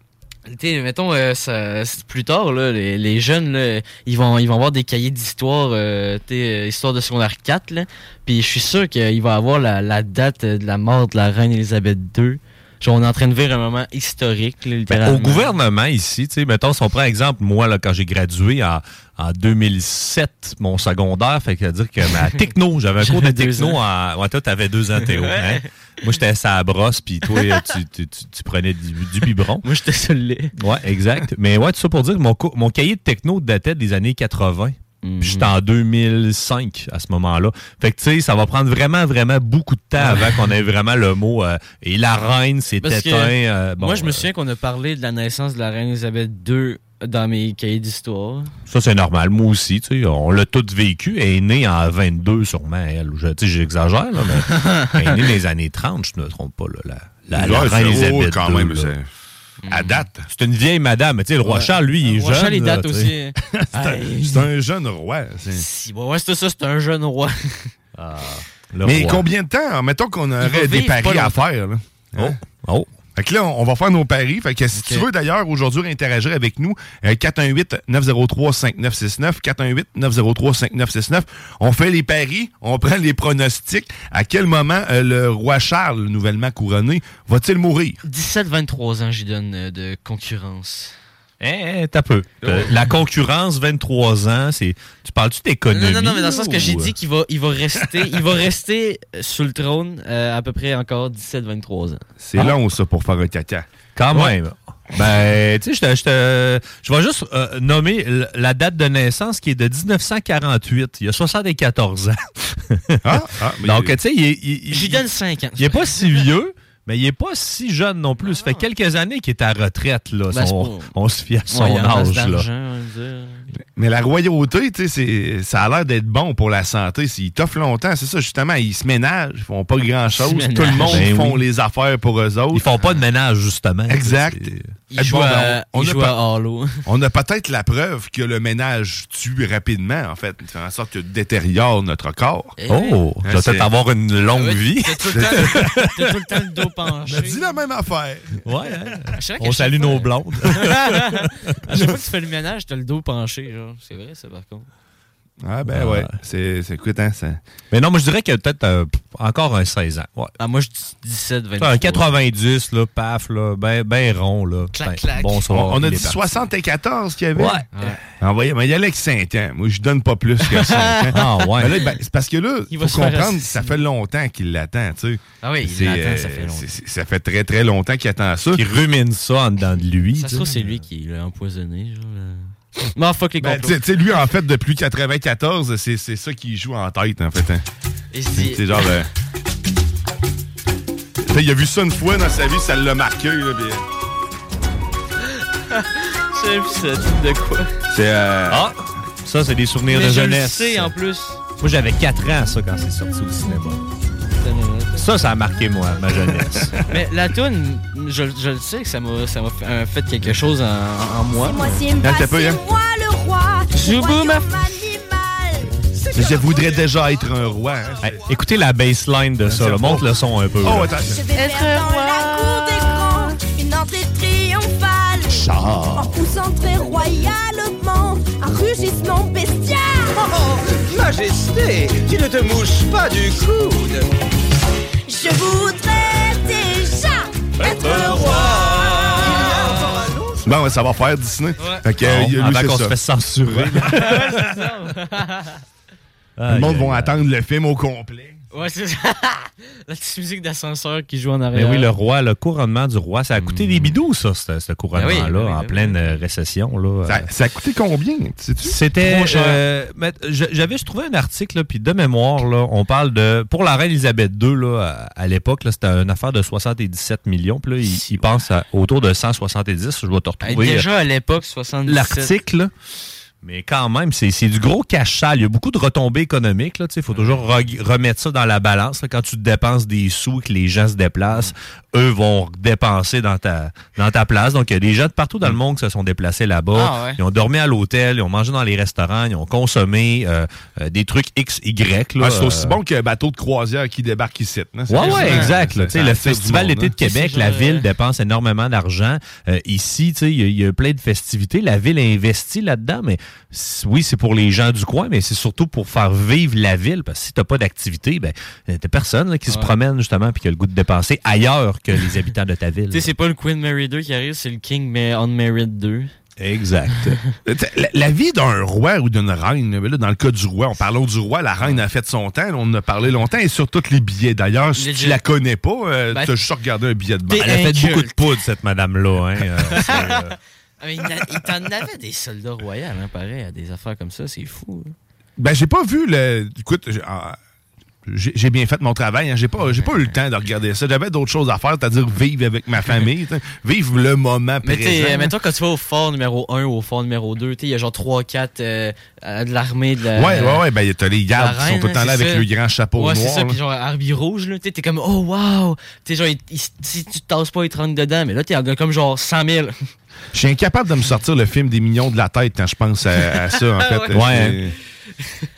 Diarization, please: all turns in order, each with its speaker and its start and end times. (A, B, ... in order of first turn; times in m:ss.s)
0:00.5-0:15.5 A
0:14.9-0:29.6 B
0:23.0-0:23.8 A
0:25.0-0:26.1 A
0:27.3-0:27.7 A
0:29.6-0:30.5 A
0:30.6-0:44.3 B
0:35.0-0:35.5 A
0:40.0-0:40.5 A
0:42.8-0:48.5 A
0:48.7-0:58.9 B
0:54.4-0:55.2 A
0:57.3-0:59.1 C
0:59.6-1:00.0 A
0:59.7-1:00.2 C
1:00.3-1:03.2 B
1:01.4-1:04.5 A
1:03.5-1:05.6 C
1:05.5-1:07.7 A
1:08.0-1:09.2 B
1:08.8-1:12.4 C
1:10.4-1:11.4 A
1:12.2-1:12.9 B
1:13.2-1:28.0 C
1:14.7-1:15.1 A
1:28.0-1:30.9 A
1:31.4-1:36.9 B
1:32.4-1:32.7 C
1:35.7-1:42.0 A
1:42.2-1:43.6 C
1:44.0-2:02.5 B
1:53.0-1:54.0 C
1:54.7-1:56.2 A
1:58.2-1:58.6 A
2:00.3-2:00.9 A
2:01.5-2:03.5 A
2:03.8-2:12.6 C
2:10.2-2:11.0 A
2:10.8-2:11.4 B
2:12.5-2:14.7 B
2:13.9-2:16.2 C
2:14.9-2:16.8 A
2:16.9-2:22.6 C
2:22.6-2:23.0 A
2:22.7-2:26.4 B
2:23.2-2:23.7 C
2:24.3-2:27.6 A
2:25.1-2:25.8 C
2:27.0-2:28.4 C
2:28.4-2:31.6 B
2:29.1-2:34.7 A
2:35.4-2:37.4 C
2:35.7-2:36.1 B
2:37.7-2:40.3 B
2:40.4-2:42.0 A
2:41.6-2:46.5 B
2:44.7-2:45.4 A
2:45.5-2:47.6 C
2:47.3-2:48.0 B
2:47.7-2:48.0 A
2:48.2-2:58.6 C
2:50.5-2:51.1 A
2:51.1-2:51.8 B
2:52.7-2:53.8 A
2:55.4-2:56.7 A
2:58.5-3:00.8 B
3:00.2-3:03.8 A
3:03.4-3:07.6 C
3:08.1-3:09.0 A
3:08.4-3:09.1 C
3:11.3-3:13.8 C
3:15.7-3:17.7 A
3:17.9-3:18.7 C
3:18.5-3:20.9 B
3:19.9-3:21.4 A
3:21.6-3:23.8 B
3:24.4-3:25.1 A
3:25.0-3:26.8 B
3:26.9-3:31.8 A
3:31.4-3:36.9 D
3:32.0-3:32.6 C
3:33.7-3:34.5 A
3:36.1-3:38.2 C
3:38.0-3:41.0 B
3:39.4-3:40.1 C
3:40.6-3:41.2 C
3:41.0-3:50.2 D
3:41.3-3:42.7 A
3:45.3-3:46.1 C
3:50.1-3:54.1 E
3:55.0-3:59.6 D
3:57.6-4:00.5 E
4:00.4-4:04.0 C
4:02.0-4:04.7 B
4:03.9-4:05.6 A
4:06.4-4:07.2 B
4:06.5-4:08.4 C
4:08.5-4:11.9 A
4:11.5-4:17.3 B
4:13.4-4:13.9 A
4:14.9-4:16.2 A
4:17.1-4:18.8 C
4:18.6-4:30.9 B
4:19.0-4:19.6 A
4:27.8-4:28.2 A
4:30.4-4:32.3 A
4:31.8-4:32.7 B
4:33.4-4:52.8 B
4:37.1-4:37.4 A
4:46.7-4:47.2 A
4:52.2-4:56.9 C
4:54.9-5:13.1 B
4:54.9-4:55.6 A
4:57.0-4:57.9 A
5:09.5-5:09.7 A
5:12.9-5:16.1 A
5:16.4-5:17.2 B
5:17.4-5:27.5 C
5:24.8-5:25.2 A
5:27.3-5:28.2 A
5:27.3-5:30.3 B
5:29.7-5:30.3 A
5:30.8-5:34.9 A
5:35.4-5:37.4 C
5:38.1-5:45.3 C
5:39.7-5:40.0 A
5:44.6-5:50.6 A
5:50.1-5:53.6 C
5:51.3-5:59.7 A
6:00.3-6:04.7 C
6:03.2-6:04.3 A
6:04.1-6:04.6 B